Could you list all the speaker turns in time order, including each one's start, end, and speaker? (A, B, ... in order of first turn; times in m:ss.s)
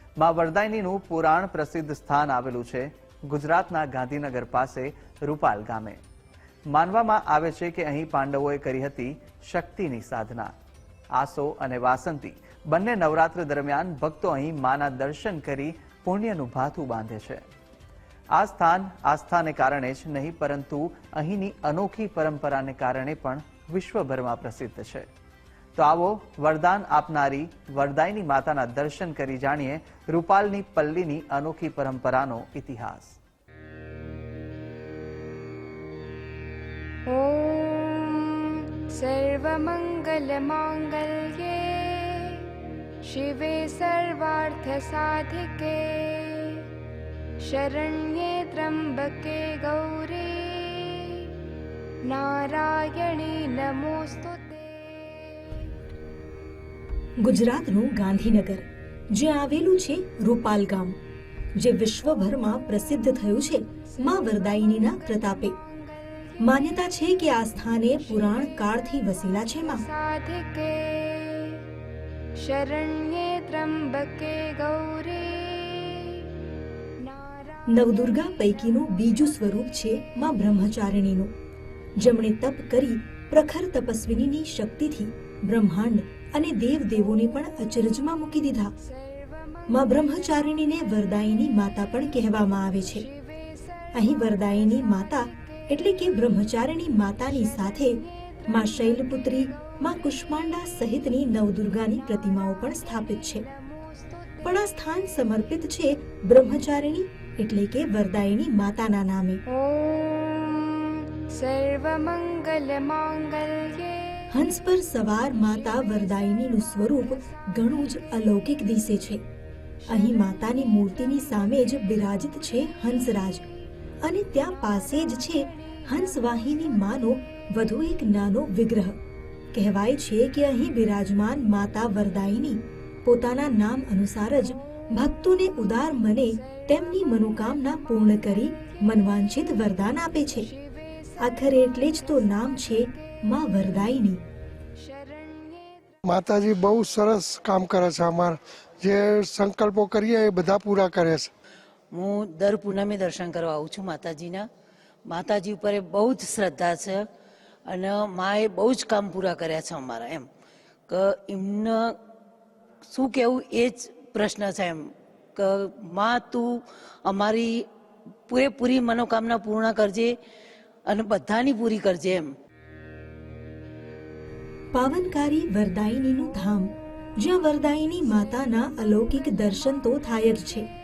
0:00.2-0:06.0 A
0:06.7-0:10.5 A
0:11.1-0:17.4 A
0:18.4-0:25.1 A
0:25.8-0:33.2 A
0:37.1-0:42.5 B
0:43.0-0:46.7 B
0:47.4-0:51.3 B
0:52.0-0:55.6 B
0:57.2-1:01.0 C
1:01.6-1:05.6 C
1:06.4-1:09.8 C
1:09.9-1:11.6 B
1:12.4-1:16.3 B
1:17.1-1:17.5 B
1:17.7-1:21.3 C
1:22.0-1:28.7 C
1:29.7-1:33.1 C
1:34.0-1:43.4 C
1:44.4-1:49.4 C
1:49.5-1:54.2 B
1:54.3-1:59.2 C
1:59.9-2:03.4 C
2:04.0-2:09.0 C
2:09.5-2:20.5 C
2:20.8-2:21.1 B
2:21.2-2:24.2 C
2:24.8-2:25.8 B
2:26.1-2:31.3 D
2:31.9-2:34.5 E
2:35.1-2:37.1 E
2:37.7-2:40.3 E
2:40.9-2:42.0 E
2:42.9-2:47.7 E
2:48.3-2:50.2 E
2:50.9-2:52.3 E
2:54.7-3:00.7 C